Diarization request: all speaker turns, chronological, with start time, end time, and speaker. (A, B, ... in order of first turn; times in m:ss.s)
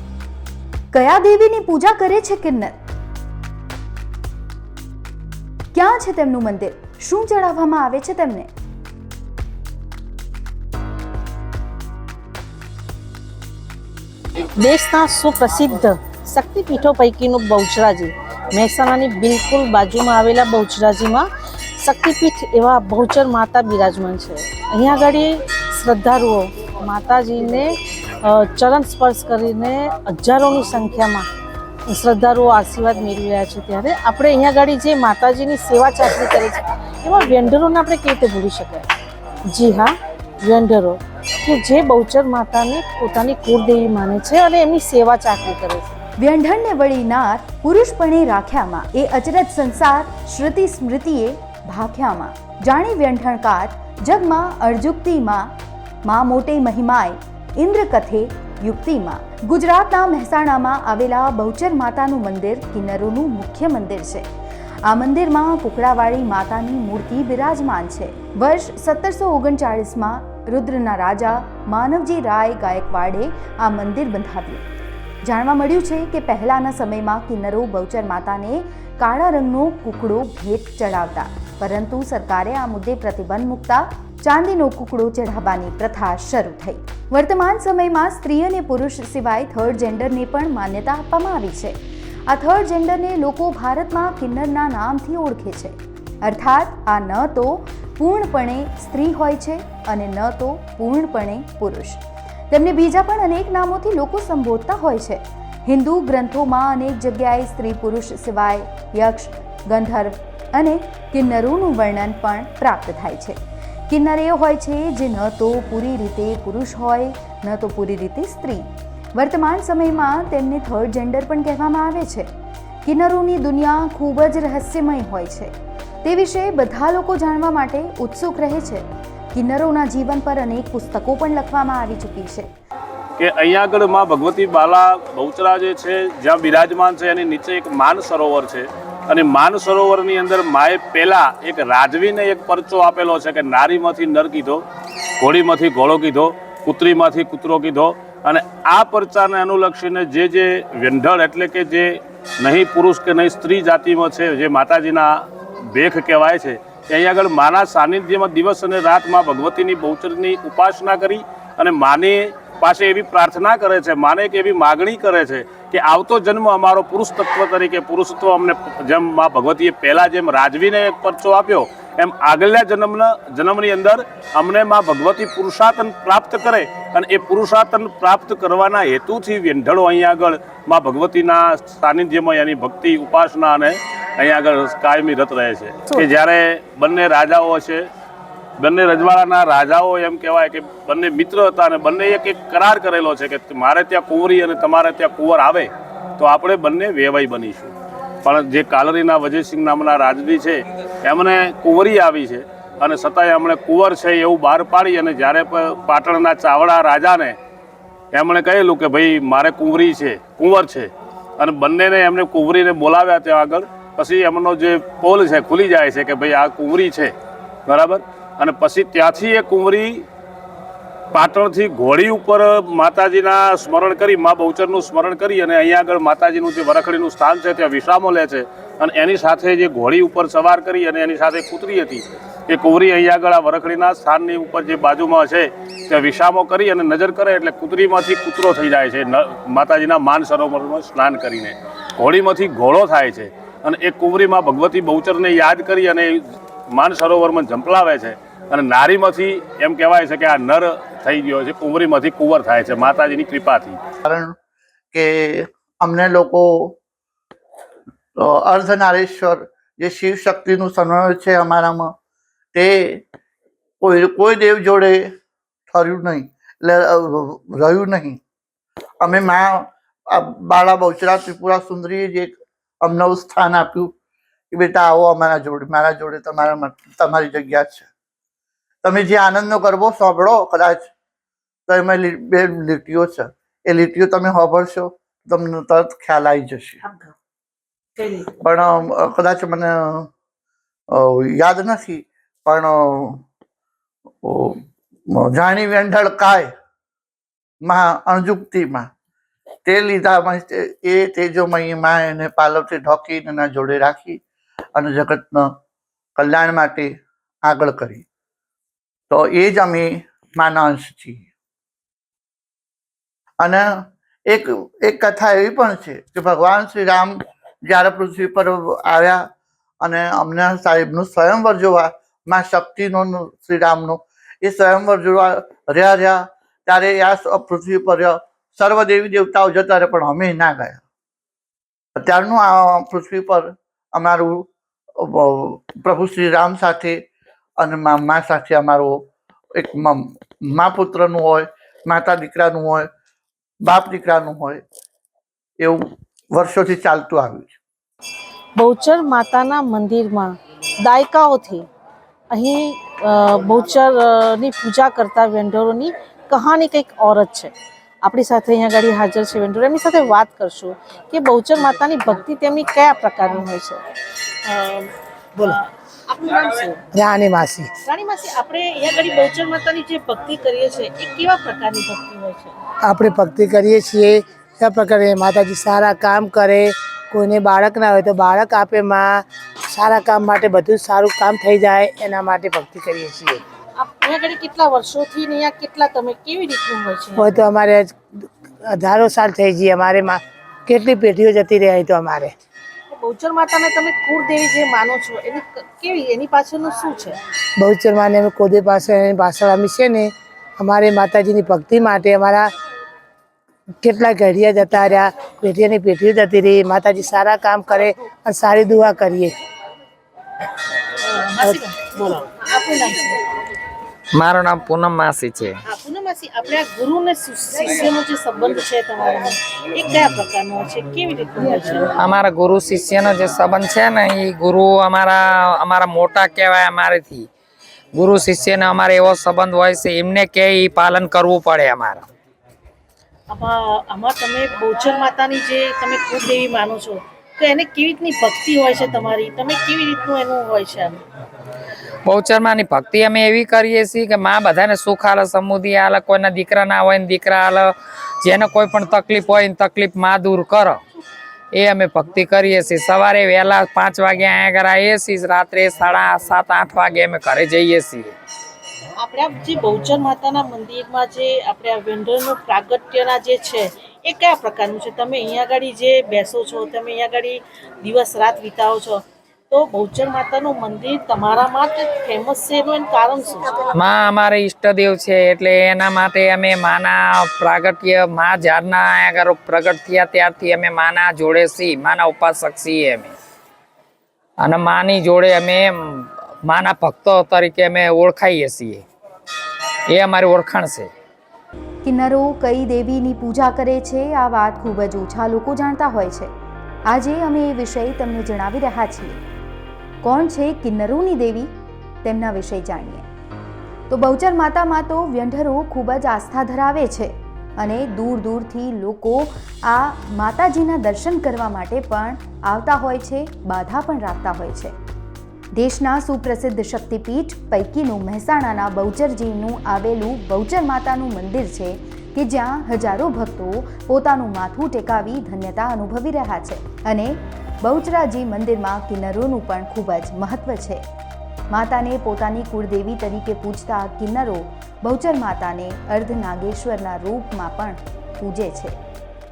0:00.9-0:02.8 A
0:05.7-0:08.5 A
0:14.6-0:31.3 B
0:31.9-0:38.9 B
0:39.4-0:45.9 B
0:46.2-0:55.5 A
0:56.0-1:04.3 A
1:04.8-1:14.6 A
1:15.2-1:53.4 A
1:53.9-2:02.3 A
2:02.8-2:05.5 A
2:06.0-2:12.5 A
2:13.2-2:24.6 C
2:25.2-3:07.8 C
3:08.6-3:17.7 C
3:18.2-3:27.4 C
3:28.1-3:37.1 C
3:37.7-3:40.0 C
3:41.1-4:13.8 C
4:14.0-4:14.3 D
4:14.9-4:16.8 D
4:18.2-4:21.9 D
4:22.5-4:23.0 D
4:23.8-4:25.1 D
4:25.7-4:28.2 D
4:29.0-4:33.9 D
4:34.5-4:37.9 D
4:38.8-4:40.9 D
4:41.7-4:46.8 D
4:48.2-4:50.1 D
4:50.9-4:53.2 D
4:54.2-4:56.5 D
4:57.6-4:58.9 D
4:59.6-5:04.2 D
5:04.8-5:05.5 D
5:06.2-5:08.0 D
5:09.1-5:11.2 D
5:13.4-5:19.2 D
5:19.8-5:30.8 D
5:32.0-5:37.0 D
5:37.6-5:39.0 D
5:39.5-5:42.9 D
5:43.6-5:44.6 D
5:45.6-5:47.6 D
5:48.6-5:51.7 B
5:52.3-6:03.8 B
6:04.4-6:06.8 B
6:06.9-6:07.7 E
6:07.8-6:12.6 B
6:12.8-6:23.4 E
6:23.8-6:27.4 B
6:27.2-6:32.3 E
6:32.9-6:37.2 B
6:37.6-6:42.5 E
6:43.8-6:49.3 E
6:51.0-6:53.2 B
6:54.1-6:55.6 F
6:55.7-7:01.9 B
7:02.0-7:07.3 F
7:07.9-7:12.0 F
7:13.3-7:21.0 B
7:22.0-7:30.8 F
7:31.5-7:38.1 F
7:39.0-7:53.7 B
7:53.7-8:03.1 F
8:04.4-8:08.8 F
8:09.9-8:10.9 F
8:11.8-8:16.3 A
8:16.9-8:19.2 A
8:20.0-8:21.5 A
8:22.0-8:23.0 A
8:23.9-8:34.7 A
8:35.5-8:50.8 A
8:51.5-8:58.8 A